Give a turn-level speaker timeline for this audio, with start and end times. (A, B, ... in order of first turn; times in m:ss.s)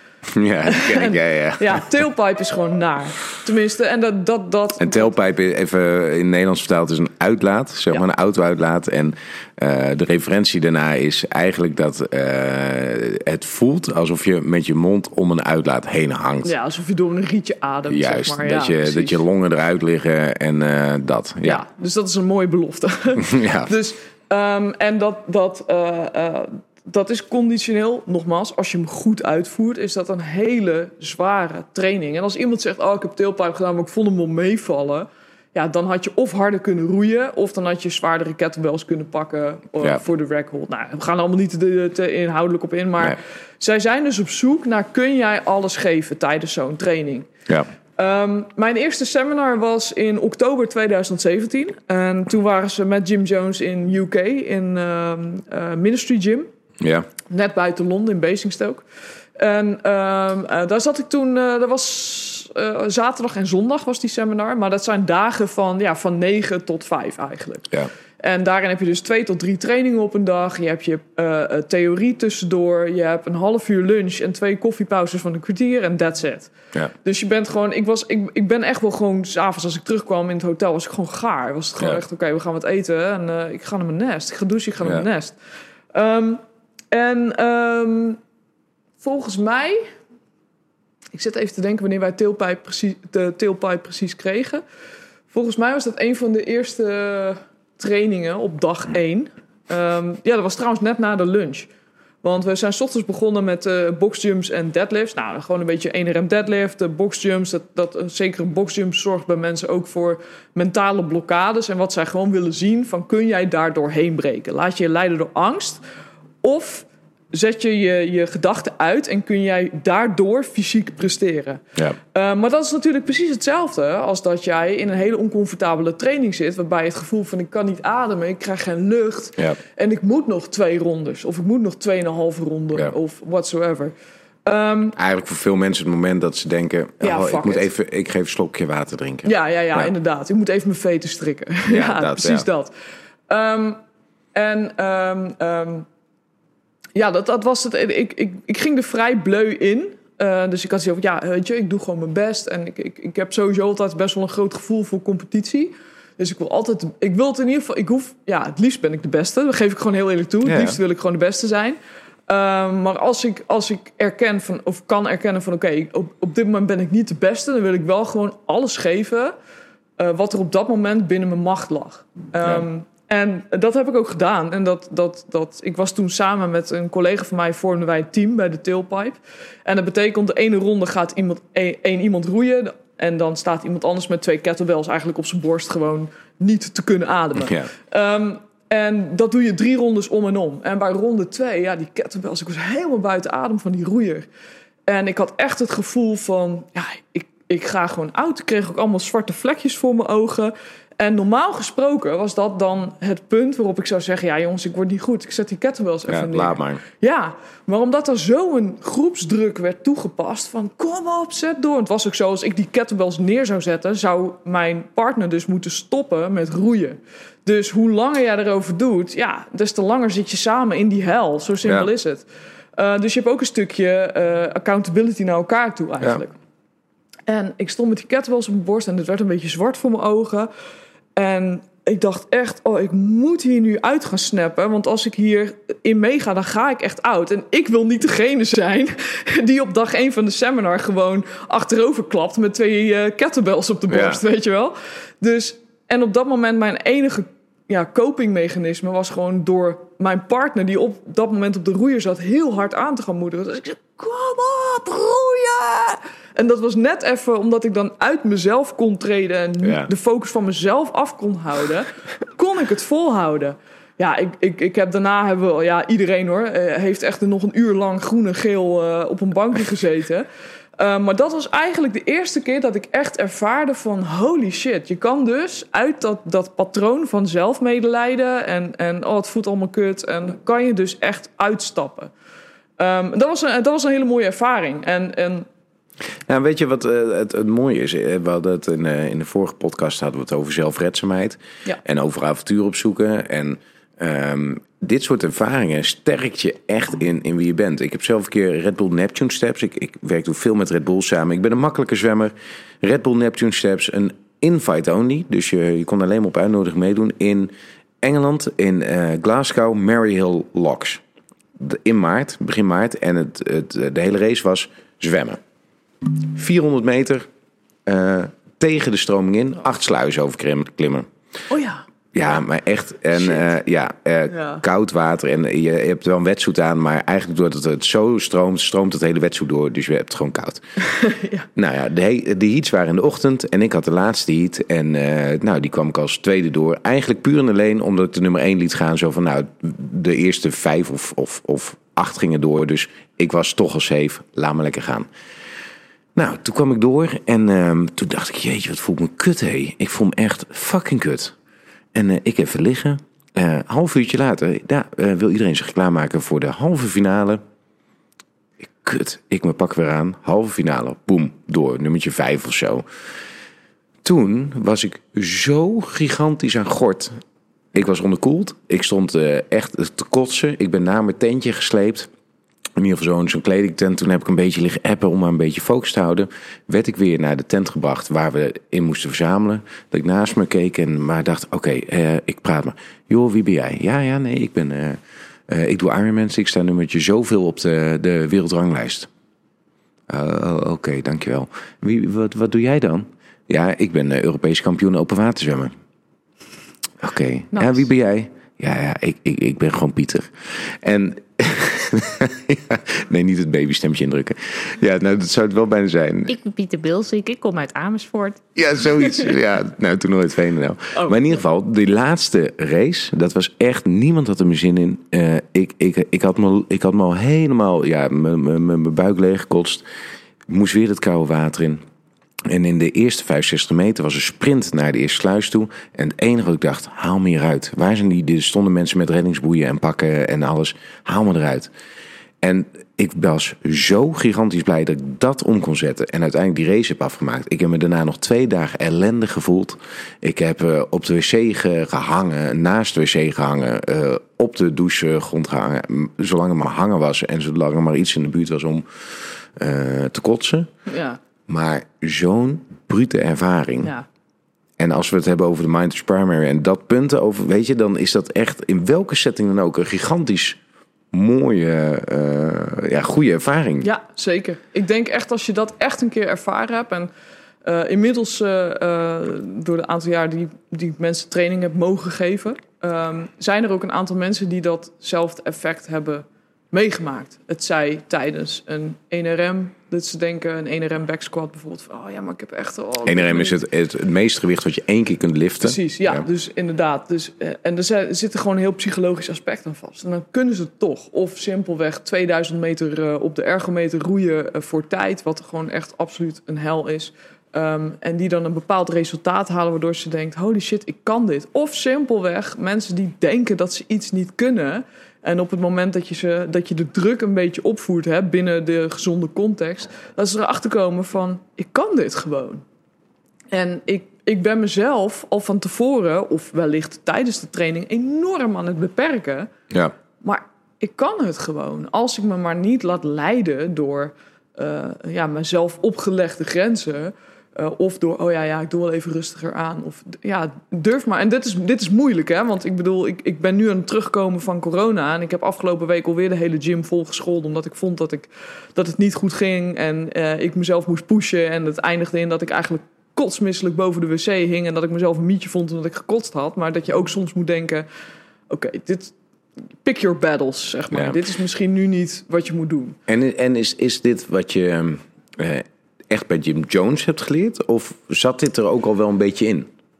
0:00.3-0:01.8 A
0:00.7-0:05.2 B
0:04.8-0:16.5 A
0:16.4-0:19.2 B
0:17.9-0:21.6 A
0:21.4-0:47.3 B
0:23.2-0:23.7 A
0:48.0-0:56.5 B
0:56.8-0:57.1 A
0:57.3-0:58.8 B
0:59.4-1:16.5 B
1:17.0-1:25.4 B
1:25.9-1:28.2 B
1:29.0-1:29.9 B
1:31.1-1:34.6 B
1:35.3-1:41.7 B
1:42.2-1:55.8 B
1:56.4-2:13.9 B
2:14.4-2:15.0 B
2:15.0-2:19.9 A
2:17.0-2:17.7 B
2:19.2-2:22.7 B
2:21.7-2:22.5 A
2:23.3-2:23.8 B
2:24.3-2:25.9 B
2:27.0-2:41.8 B
2:40.4-2:40.8 A
2:42.3-2:49.3 B
2:50.0-3:14.3 B
3:14.9-3:42.2 B
3:26.1-3:26.8 A
3:42.8-3:46.4 B
3:47.3-3:50.5 B
3:51.2-4:30.3 B
4:03.9-4:04.2 A
4:19.6-4:19.9 A
4:30.8-4:42.1 B
4:42.8-4:45.5 B
4:46.3-5:11.0 A
5:11.6-5:15.4 A
5:16.3-5:17.3 A
5:17.9-5:21.1 A
5:21.5-5:21.8 B
5:22.1-5:30.6 A
5:23.2-5:23.5 B
5:24.3-5:24.6 B
5:30.8-5:31.5 B
5:31.6-5:45.1 A
5:46.2-5:51.4 A
5:51.9-5:57.4 A
5:58.8-6:02.8 A
6:04.0-6:07.2 A
6:07.7-6:12.1 A
6:12.8-6:29.1 A
6:30.1-6:35.7 A
6:37.0-6:40.3 A
6:37.5-6:37.8 B
6:40.8-6:46.3 A
6:46.3-6:48.4 C
6:48.6-6:59.8 A
7:00.5-7:01.8 A
7:02.5-7:11.7 A
7:12.4-7:30.7 A
7:30.9-7:31.2 B
7:31.5-7:33.9 A
7:34.8-7:40.6 A
7:41.1-7:43.9 A
7:43.8-7:47.1 B
7:47.6-8:03.6 B
8:03.0-8:06.2 A
8:05.6-8:32.6 B
8:33.5-8:39.5 B
8:40.2-9:07.9 B
9:08.5-9:09.1 B
9:09.8-9:13.0 B
9:10.9-9:11.2 A
9:13.1-9:19.7 A